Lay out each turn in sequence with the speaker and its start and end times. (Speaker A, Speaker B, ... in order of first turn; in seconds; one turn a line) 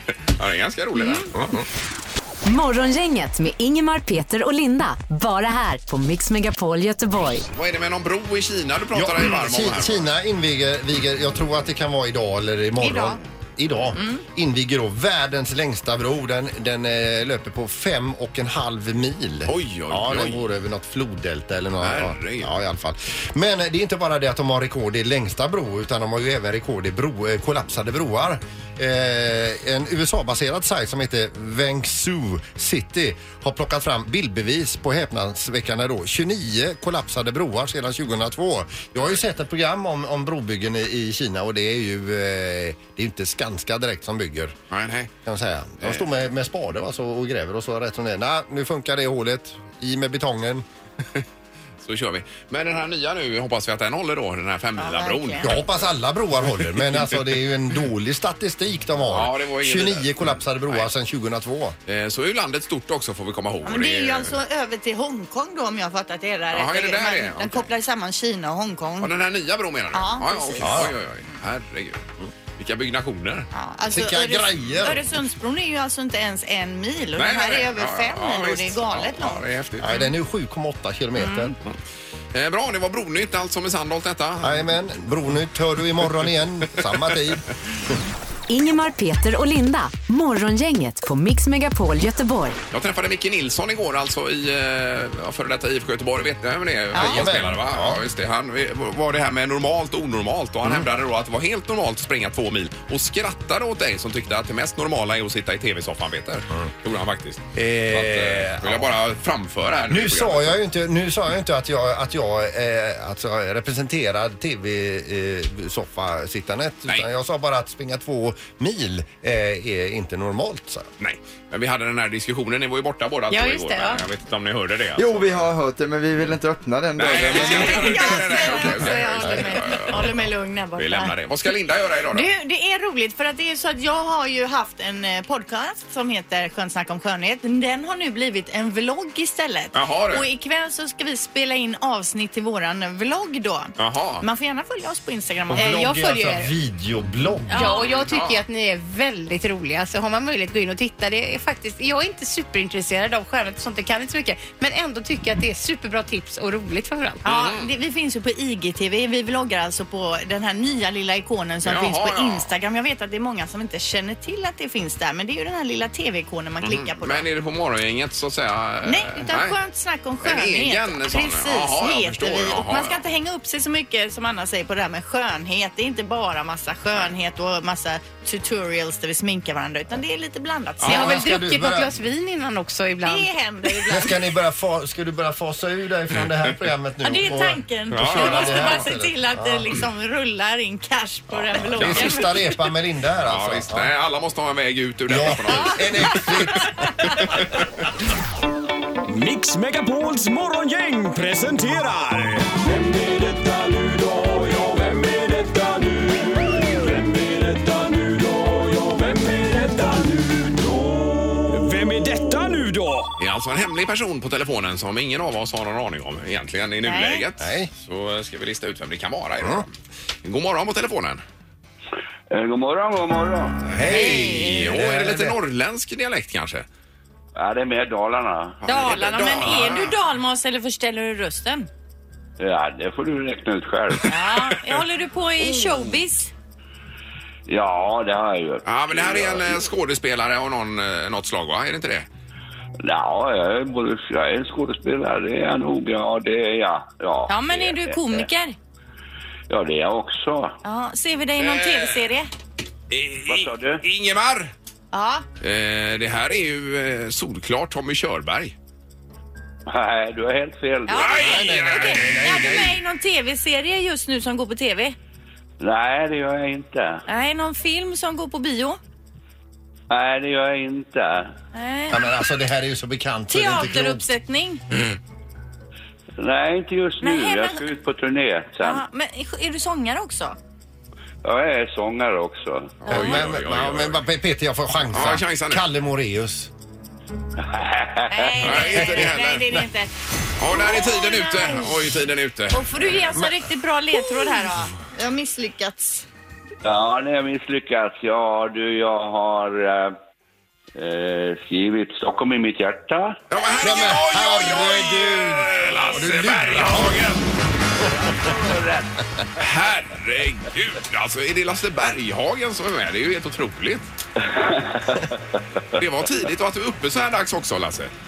Speaker A: 0.4-1.4
Speaker B: 1.0-1.3
Speaker C: 1.3-1.7
Speaker D: 2.5-7.5
Speaker A: 7.5-10.1
Speaker C: 8.9-44.5
Speaker B: 12.8-13.2
Speaker B: 14.0-14.2
Speaker A: 19.5-20.5
Speaker A: 21.8-22.5
Speaker A: 44.7-45.1
Speaker C: 45.2-50.6
Speaker A: 51.8-55.9
Speaker B: 54.8-55.5
Speaker C: 55.4-61.8
Speaker A: 56.6-57.2
Speaker A: 59.1-60.9
Speaker A: 61.9-64.3
Speaker B: 63.6-69.1
Speaker A: 66.5-67.7
Speaker A: 69.0-72.0
Speaker B: 69.9-70.9
Speaker C: 70.6-71.0
Speaker A: 72.6-73.5
Speaker B: 73.5-79.4
Speaker C: 73.9-75.1
Speaker A: 77.2-80.0
Speaker C: 79.8-81.5
Speaker B: 81.2-81.5
Speaker A: 82.3-84.6
Speaker C: 84.4-88.0
Speaker D: 88.5-92.6
Speaker A: 92.7-110.6
Speaker C: 96.9-98.0
Speaker B: 96.9-97.3
Speaker C: 107.5-109.0
Speaker C: 109.9-120.9
Speaker A: 121.0-125.5
Speaker E: 124.9-128.6
Speaker A: 127.0-130.2
Speaker B: 127.2-131.1
Speaker C: 129.2-129.5
Speaker A: 130.8-132.3
Speaker B: 132.1-146.5
Speaker A: 139.7-140.3
Speaker A: 143.8-144.2
Speaker C: 145.5-147.7
Speaker F: 145.6-145.9
Speaker F: 147.5-157.2
Speaker B: 147.5-147.9
Speaker A: 147.7-148.4
Speaker B: 157.2-167.3
Speaker A: 157.3-157.7
Speaker A: 161.6-162.5
Speaker A: 166.6-169.6
Speaker B: 168.8-181.2
Speaker A: 170.2-173.0
Speaker A: 180.8-181.1
Speaker F: 180.9-183.3
Speaker C: 180.9-181.9
Speaker B: 183.1-184.2
Speaker C: 183.9-189.8
Speaker A: 186.1-186.5
Speaker B: 187.0-192.4
Speaker A: 187.9-188.9
Speaker A: 191.3-192.3
Speaker C: 191.8-193.9
Speaker A: 193.2-197.8
Speaker C: 195.1-196.8
Speaker B: 196.0-196.9
Speaker G: 199.1-213.1
Speaker A: 213.2-219.7
Speaker B: 216.8-217.2
Speaker C: 217.4-217.7
Speaker C: 219.4-219.6
Speaker A: 220.2-221.2
Speaker H: 222.3-223.6
Speaker C: 223.7-225.4
Speaker A: 223.8-226.7
Speaker B: 223.8-224.7
Speaker H: 227.4-229.6
Speaker A: 228.6-229.9
Speaker B: 228.7-231.7
Speaker H: 232.4-234.5
Speaker B: 234.1-236.3
Speaker H: 235.5-236.0
Speaker H: 237.5-239.6
Speaker A: 238.6-242.1
Speaker H: 242.8-248.3
Speaker B: 247.3-248.6
Speaker H: 249.5-250.5
Speaker B: 250.6-252.3
Speaker A: 251.4-252.1
Speaker A: 252.9-254.5
Speaker H: 253.2-253.8
Speaker B: 254.9-255.2
Speaker A: 255.4-258.6
Speaker H: 259.7-261.3
Speaker B: 260.9-265.0
Speaker A: 261.0-262.1
Speaker C: 261.1-262.8
Speaker H: 265.6-267.0
Speaker B: 267.1-268.8
Speaker H: 269.9-271.3
Speaker B: 271.5-272.1
Speaker C: 271.9-274.1
Speaker B: 273.3-274.6
Speaker H: 276.2-278.8
Speaker B: 277.0-277.6
Speaker B: 278.6-280.4
Speaker H: 281.2-282.8
Speaker A: 282.8-284.0
Speaker C: 282.9-286.5
Speaker B: 282.9-283.2
Speaker A: 284.9-285.6
Speaker H: 287.4-288.4
Speaker B: 288.1-289.9
Speaker A: 288.4-289.5
Speaker C: 288.7-289.7
Speaker A: 290.4-293.0
Speaker B: 290.6-291.7
Speaker B: 292.5-296.1
Speaker H: 296.6-299.9
Speaker H: 300.8-303.2
Speaker A: 303.3-307.2
Speaker C: 303.6-307.1
Speaker C: 307.8-308.1
Speaker H: 307.8-309.0
Speaker A: 309.4-313.9
Speaker H: 314.2-315.6
Speaker A: 315.8-317.9